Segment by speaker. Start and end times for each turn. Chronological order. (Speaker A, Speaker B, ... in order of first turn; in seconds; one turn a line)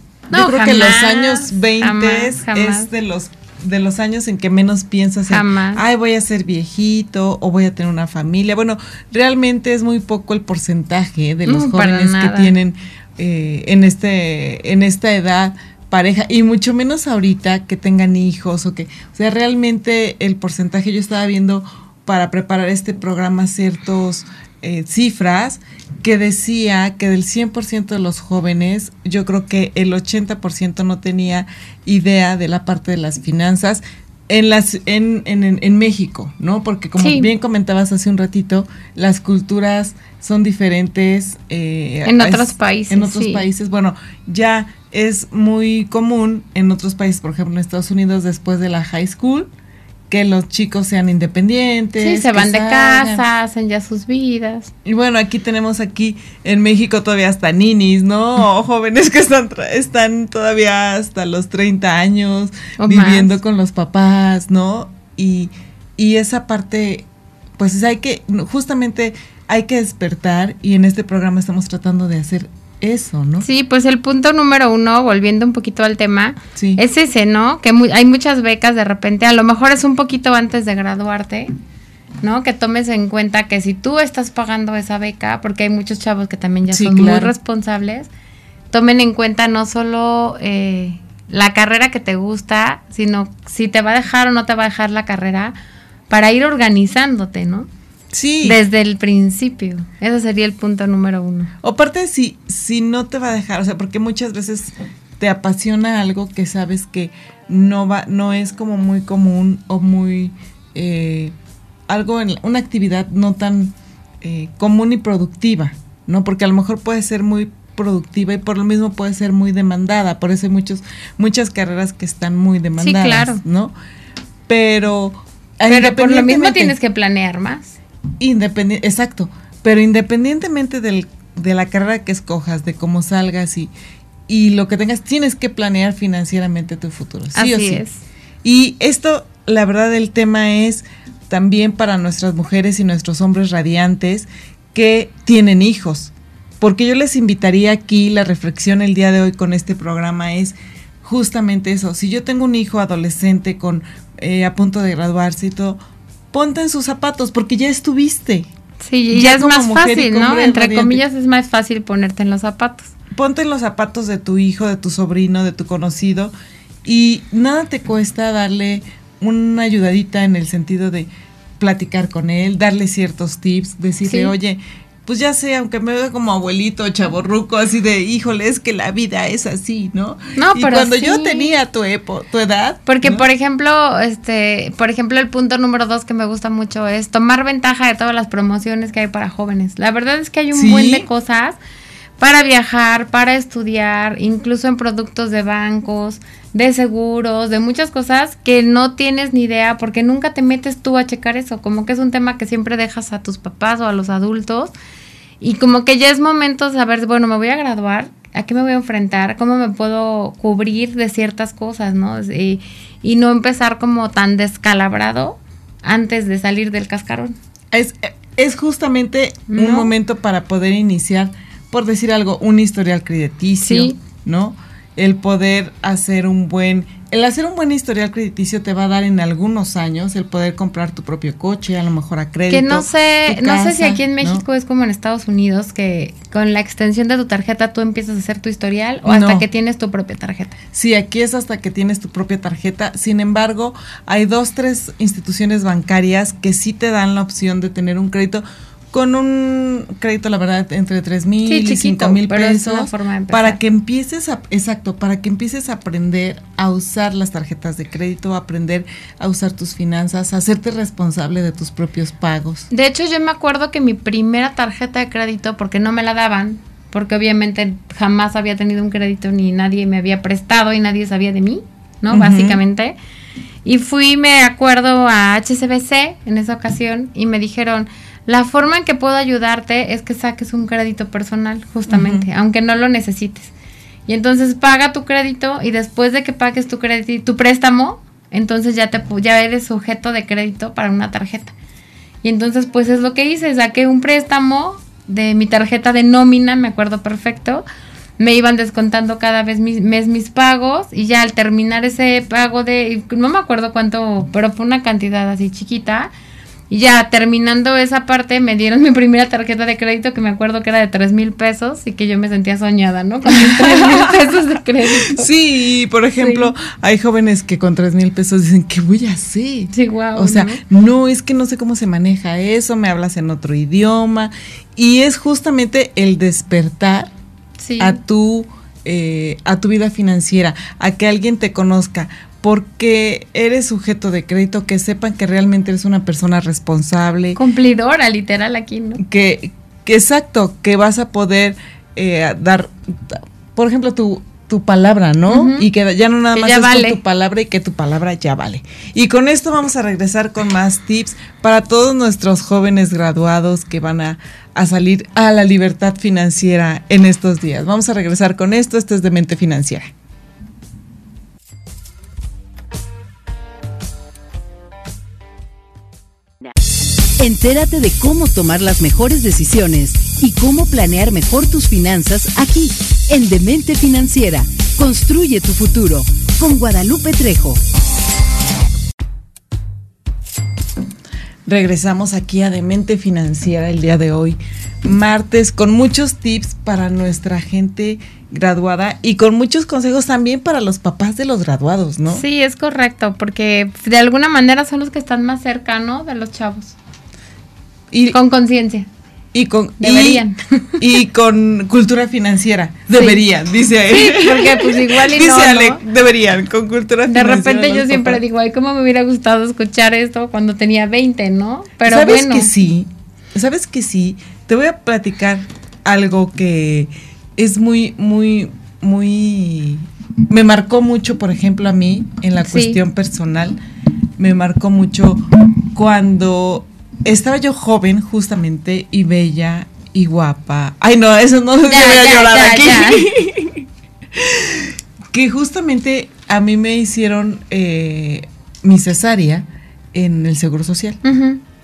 Speaker A: 0.3-2.9
Speaker B: 0.3-49.5
Speaker A: 5.3-5.8
Speaker A: 11.5-12.6
Speaker A: 37.0-37.3
Speaker A: 42.0-43.5
Speaker B: 50.1-53.2
Speaker A: 52.0-54.7
Speaker B: 54.9-67.1
Speaker A: 62.8-63.4
Speaker B: 67.6-73.5
Speaker A: 73.4-81.5
Speaker B: 76.6-76.8
Speaker A: 82.2-88.1
Speaker B: 86.7-87.3
Speaker A: 88.7-95.5
Speaker A: 96.1-97.7
Speaker B: 98.1-98.6
Speaker A: 98.4-101.5
Speaker B: 101.6-111.3
Speaker B: 111.9-123.7
Speaker A: 122.8-123.4
Speaker B: 124.5-126.7
Speaker A: 125.7-127.8
Speaker B: 128.2-133.7
Speaker B: 134.3-137.8
Speaker A: 137.3-138.0
Speaker B: 138.4-155.8
Speaker B: 156.3-158.5
Speaker A: 158.8-162.9
Speaker B: 159.1-161.0
Speaker B: 163.1-166.3
Speaker B: 166.8-183.2
Speaker A: 174.1-174.3
Speaker A: 180.4-181.5
Speaker A: 182.9-191.6
Speaker B: 190.5-191.1
Speaker A: 192.2-204.7
Speaker A: 205.4-217.4
Speaker B: 217.7-234.4
Speaker A: 219.5-219.9
Speaker A: 223.6-223.9
Speaker A: 232.5-240.6
Speaker B: 239.1-239.4
Speaker B: 240.7-262.7
Speaker A: 251.5-253.6
Speaker A: 262.7-273.0
Speaker B: 272.1-272.6
Speaker A: 273.6-283.5
Speaker B: 281.9-282.2
Speaker A: 284.1-291.5
Speaker A: 292.2-297.6
Speaker A: 298.2-306.1
Speaker A: 306.7-315.3
Speaker B: 313.3-327.1
Speaker A: 316.2-316.5
Speaker A: 319.7-320.6
Speaker A: 327.6-328.0
Speaker B: 327.8-337.4
Speaker A: 337.4-339.0
Speaker B: 339.0-359.9
Speaker A: 345.3-345.7
Speaker A: 346.3-347.0
Speaker C: 367.2-377.6
Speaker B: 381.5-392.2
Speaker A: 392.1-396.8
Speaker B: 397.9-398.2
Speaker A: 398.1-398.9
Speaker B: 399.3-400.2
Speaker A: 399.8-400.8
Speaker B: 400.8-408.2
Speaker A: 402.9-403.2
Speaker A: 403.9-405.8
Speaker A: 407.1-412.5
Speaker B: 411.8-423.6
Speaker A: 422.5-422.8
Speaker B: 424.2-441.0
Speaker A: 431.6-433.1
Speaker A: 441.0-441.4